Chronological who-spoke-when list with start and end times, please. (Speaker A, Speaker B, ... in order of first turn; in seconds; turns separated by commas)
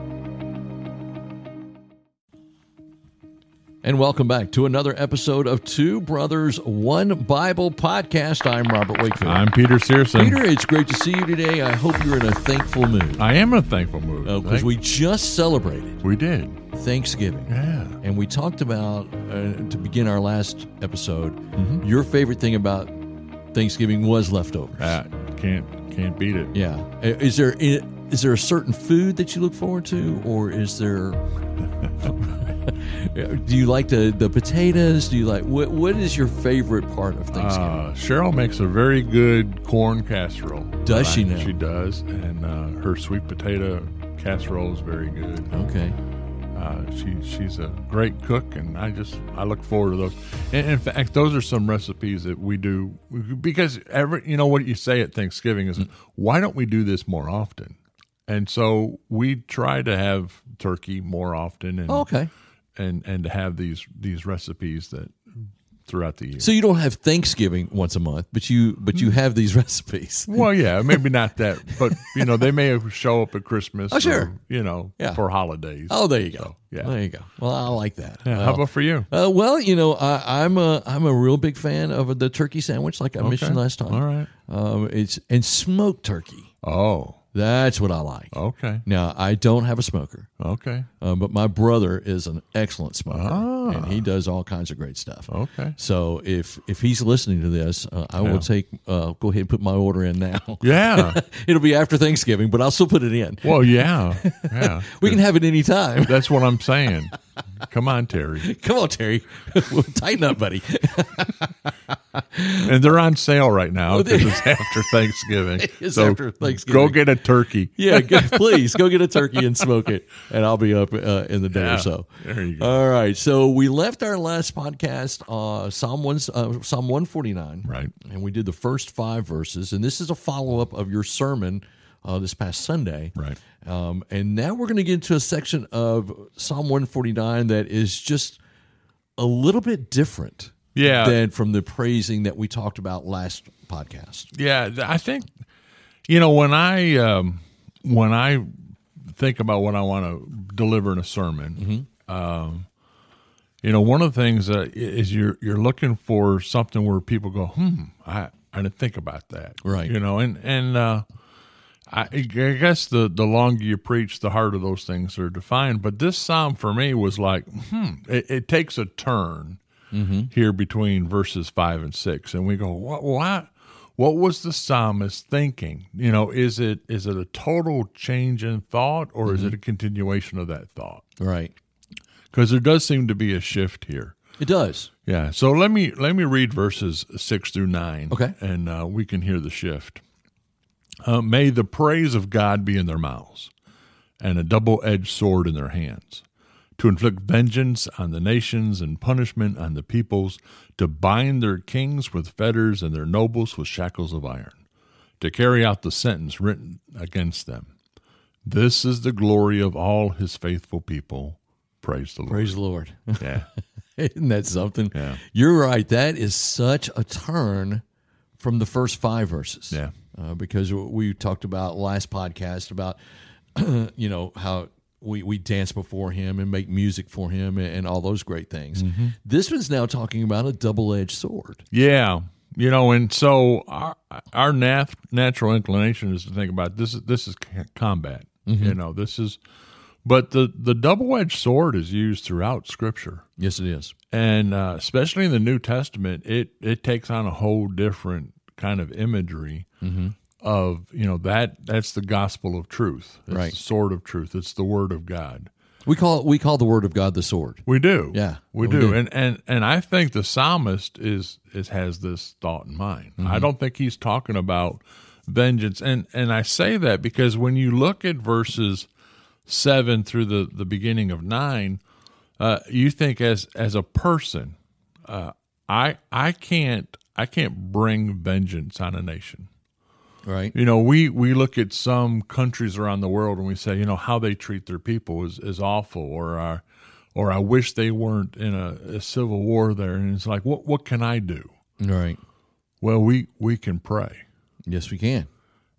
Speaker A: 3.8-9.5, Speaker B: 9.2-10.4, Speaker A: 10.2-13.3, Speaker B: 13.2-14.7, Speaker A: 14.2-16.0, Speaker B: 16.0-16.6, Speaker A: 16.7-25.0, Speaker B: 17.5-18.0, Speaker B: 21.6-21.8, Speaker B: 24.8-26.5, Speaker A: 26.5-31.2, Speaker A: 32.0-37.8, Speaker B: 37.3-45.5, Speaker A: 40.9-41.6, Speaker A: 45.5-46.0, Speaker B: 46.5-57.8, Speaker B: 58.3-62.1, Speaker A: 61.9-62.3, Speaker B: 62.8-65.2, Speaker B: 65.9-66.5, Speaker A: 66.4-71.0, Speaker B: 70.3-76.9, Speaker A: 71.7-72.2, Speaker A: 73.9-74.3, Speaker A: 75.9-86.5, Speaker B: 78.2-79.1, Speaker B: 83.2-84.3, Speaker B: 86.6-87.2, Speaker A: 87.3-90.3, Speaker B: 88.3-88.8, Speaker B: 90.4-90.9, Speaker A: 91.0-107.0, Speaker B: 93.1-94.0, Speaker B: 95.3-95.8, Speaker B: 98.2-98.5, Speaker B: 100.6-101.2, Speaker B: 103.4-105.2, Speaker B: 106.0-108.5, Speaker A: 108.4-111.6, Speaker A: 112.3-112.7, Speaker B: 112.6-119.7, Speaker A: 113.9-117.1, Speaker A: 117.8-138.4, Speaker B: 121.5-122.8, Speaker B: 127.7-127.9, Speaker A: 139.2-144.3, Speaker B: 140.8-141.2, Speaker B: 144.3-145.3, Speaker B: 146.1-152.7, Speaker A: 151.6-151.9, Speaker B: 153.6-161.1, Speaker A: 159.6-159.9, Speaker B: 161.9-169.6, Speaker A: 169.9-170.3, Speaker B: 170.3-181.0, Speaker A: 179.3-179.6, Speaker A: 181.2-181.5, Speaker B: 182.3-184.2, Speaker A: 184.4-184.9, Speaker B: 185.1-190.0, Speaker A: 188.1-188.3, Speaker B: 191.0-193.5, Speaker B: 194.2-196.2, Speaker B: 196.8-204.6, Speaker B: 205.2-207.7, Speaker B: 208.4-212.6, Speaker A: 212.3-217.8, Speaker B: 213.2-213.5, Speaker B: 214.9-215.2, Speaker A: 218.4-223.0, Speaker A: 223.6-231.7, Speaker B: 228.8-229.2, Speaker B: 231.7-239.4, Speaker A: 238.5-238.8, Speaker B: 240.0-243.2, Speaker A: 243.4-243.9, Speaker B: 244.1-249.7, Speaker A: 249.8-250.2, Speaker B: 250.4-255.5, Speaker A: 253.3-253.6, Speaker A: 255.8-259.0, Speaker B: 257.7-268.9, Speaker A: 263.2-263.5, Speaker B: 269.5-271.8, Speaker B: 272.4-274.6, Speaker B: 275.1-279.5, Speaker A: 280.3-280.5, Speaker B: 280.5-286.6, Speaker B: 287.1-291.5, Speaker A: 291.8-292.2, Speaker B: 292.8-294.2, Speaker A: 294.7-295.3